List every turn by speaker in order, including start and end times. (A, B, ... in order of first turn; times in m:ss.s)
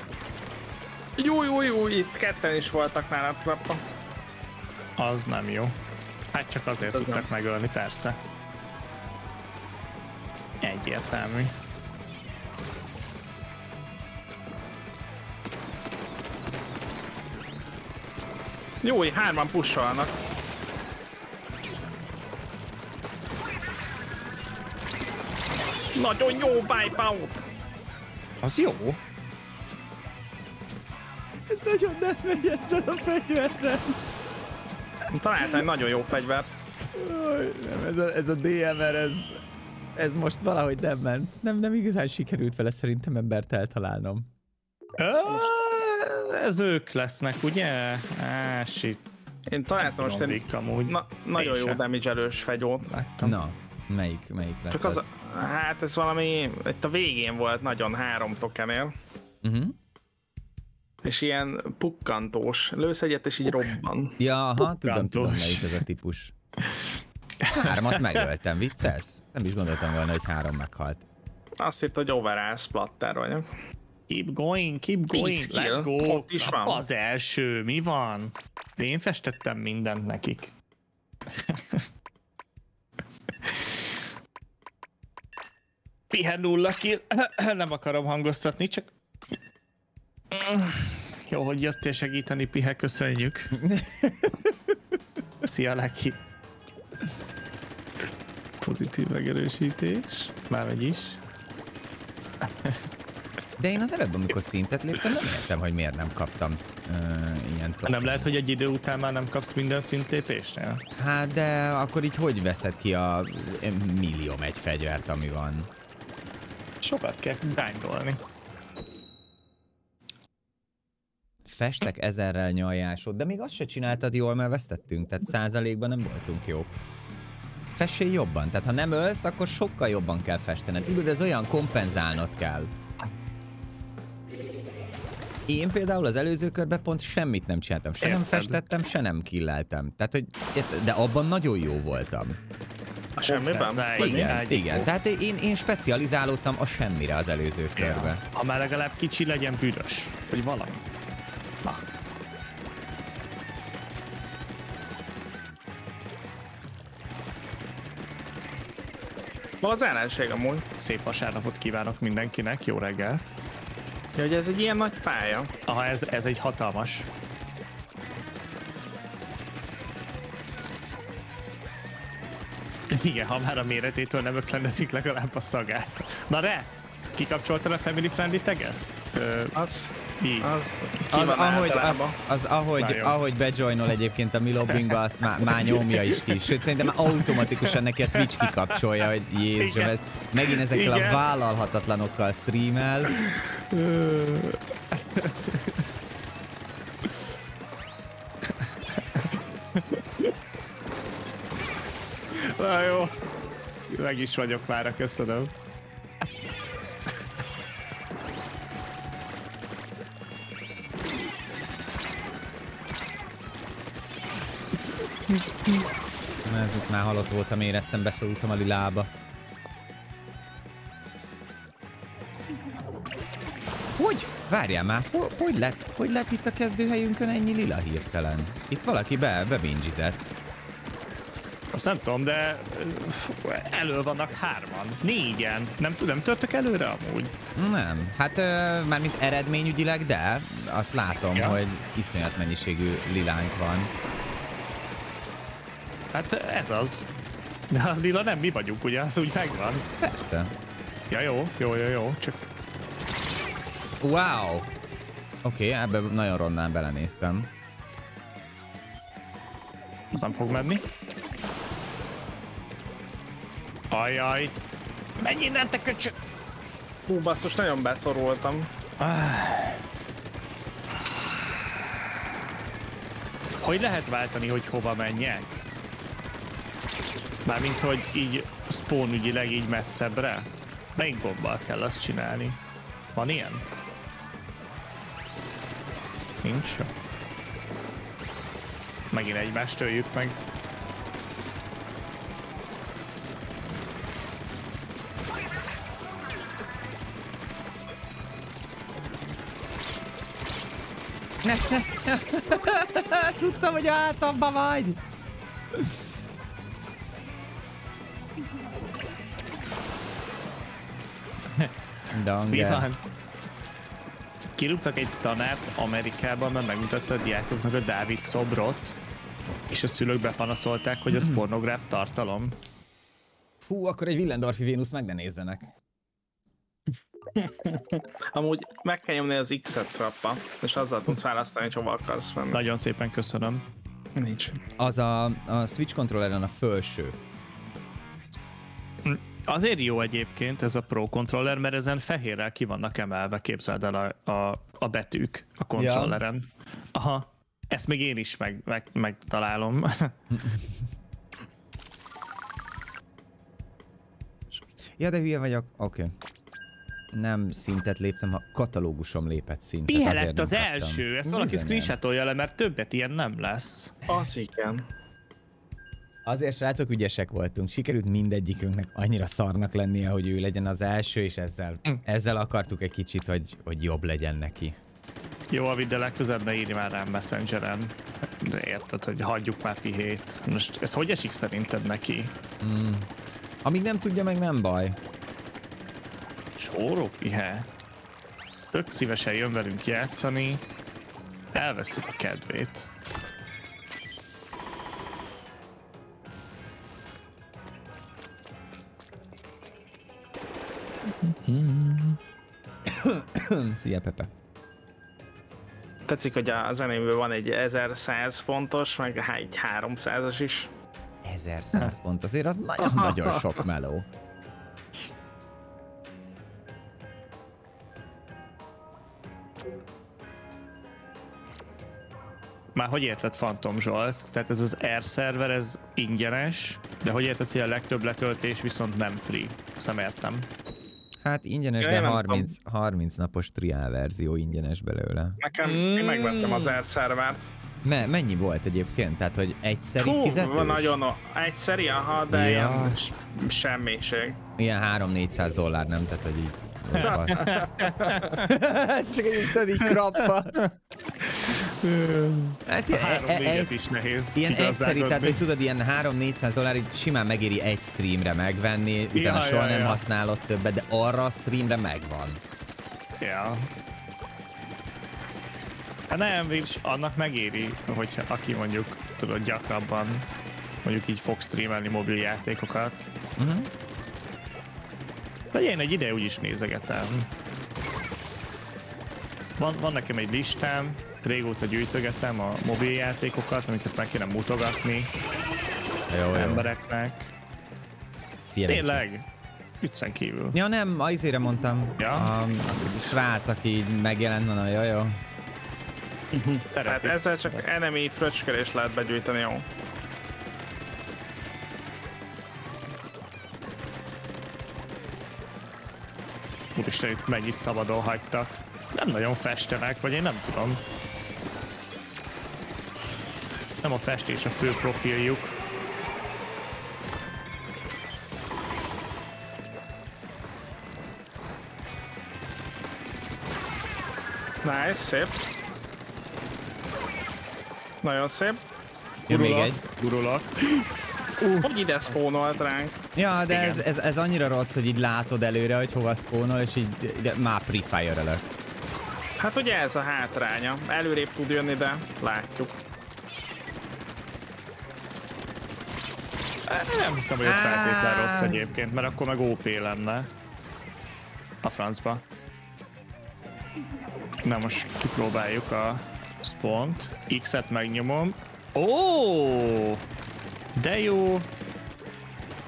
0:01.2-0:03.8 A
0:05.0-0:05.7 B
0:06.3-0:08.2 B
0:06.9-0:07.2 A
0:10.6-0:11.5 B
0:18.8-0:20.1 A
0:25.9-0:27.5 A
0:28.4-0:29.0 B
0:31.5-0:34.0 C
0:35.1-0:36.5 A
0:36.9-0:39.4 C
0:40.0-0:44.3 C
0:45.0-0:49.0 B
0:45.2-0:45.6 A
0:49.5-0:52.9 A
0:49.8-0:51.8 B
0:52.8-0:53.4 B
0:53.2-0:55.0 C
0:54.7-0:58.9 A
0:59.4-0:59.8 C
1:01.0-1:04.2 A
1:04.2-1:06.3 C
1:04.6-1:05.8 B
1:07.4-1:08.2 B
1:07.5-1:11.0 C
1:11.6-1:13.4 A
1:14.1-1:20.5 B
1:15.1-1:16.8 A
1:21.4-1:21.8 B
1:26.1-1:28.9 B
1:30.3-1:33.6 B
1:33.5-1:34.7 C
1:35.4-1:36.2 B
1:38.6-1:41.2 B
1:42.4-1:42.8 B
1:43.6-1:48.3 C
1:47.8-1:50.8 B
1:50.9-1:55.7 C
1:56.8-1:58.2 B
2:01.4-2:06.7 C
2:07.7-2:12.7 C
2:15.5-2:22.4 C
2:18.0-2:18.6 B
2:23.2-2:24.4 A
2:23.2-2:24.9 B
2:24.0-2:28.2 C
2:27.8-2:30.8 B
2:39.6-2:40.6 A
2:40.8-2:43.2 B
2:44.2-2:45.5 A
2:45.6-2:47.1 B
2:52.9-2:59.6 B
2:59.5-3:02.2 A
3:00.2-3:00.5 B
3:01.1-3:13.2 C
3:02.8-3:03.2 B
3:05.4-3:08.8 B
3:09.6-3:11.2 B
3:13.2-3:15.8 B
3:18.6-3:20.3 B
3:22.3-3:23.1 B
3:23.9-3:25.5 B
3:36.4-3:39.1 C
3:43.9-3:50.2 C
3:51.7-3:57.3 B
3:57.6-4:03.9 C
4:01.3-4:01.6 B
4:06.1-4:07.1 B
4:07.7-4:09.8 B
4:10.0-4:10.5 C
4:11.1-4:12.4 B
4:14.0-4:14.7 C
4:15.4-4:17.5 C
4:20.1-4:20.8 B
4:23.9-4:24.5 B
4:25.2-4:26.1 B
4:27.1-4:28.7 A
4:29.0-4:29.8 B
4:33.6-4:35.6 B
4:37.4-4:42.6 B
4:43.1-4:43.6 B
4:46.4-4:46.9 B
4:49.1-4:50.4 B
5:01.4-5:05.0 C
5:12.1-5:12.9 C
5:12.5-5:13.0 B
5:14.6-5:19.0 B
5:19.7-5:22.6 B
5:23.6-5:25.7 C
5:27.3-5:32.6 A
5:32.5-5:33.6 B
5:34.2-5:34.6 A
5:34.8-5:37.2 C
5:39.0-5:50.1 B
5:45.8-5:46.2 C
5:50.3-5:50.8 C
5:55.0-5:56.1 C
5:57.1-6:01.9 C
5:59.9-6:03.9 B
6:04.1-6:04.8 A
6:06.2-6:14.8 C
6:15.5-6:22.3 B
6:22.6-6:23.1 C
6:23.6-6:25.0 C
6:26.6-6:27.7 B
6:28.7-6:30.6 B
6:31.5-6:32.9 B
6:41.2-6:42.2 B
6:42.8-6:44.3 C
6:46.1-6:50.7 A
6:51.2-6:54.1 C
6:52.9-6:53.4 A
7:02.7-7:10.5 B
7:11.2-7:15.4 C
7:11.8-7:12.5 A
7:15.4-7:17.5 A
7:15.6-7:16.8 B
7:17.8-7:21.0 C
7:20.0-7:24.4 A
7:22.3-7:23.0 C
7:24.6-7:27.6 C
7:27.0-7:28.5 B
7:27.0-7:28.2 A
7:28.3-7:30.6 C
7:29.8-7:30.7 B
7:31.2-7:35.4 B
7:32.6-7:33.7 C
7:34.3-7:42.4 C
7:39.1-7:40.0 B
7:43.2-7:43.7 B
7:46.1-7:50.2 B
7:50.8-7:53.0 B
7:53.4-7:53.7 C
7:55.5-7:57.3 B
7:59.6-8:05.1 B
8:06.1-8:06.7 C
8:06.3-8:07.3 B
8:08.5-8:09.0 C
8:08.7-8:09.2 B
8:09.8-8:10.6 B
8:10.5-8:15.2 C
8:12.0-8:13.1 B
8:16.3-8:19.6 A
8:16.7-8:17.6 B
8:26.8-8:30.8 B
8:33.8-8:35.5 B
8:44.6-8:45.4 A
8:48.0-8:48.6 A
8:49.3-8:49.8 C
8:49.3-8:50.9 B
8:51.4-8:51.7 B
8:51.6-8:53.0 A
8:53.1-8:58.4 C
8:53.5-8:53.8 B
8:59.4-9:02.7 A
9:06.7-9:10.3 B
9:07.4-9:08.6 C
9:11.6-9:12.2 B
9:14.4-9:20.0 B
9:20.8-9:21.5 B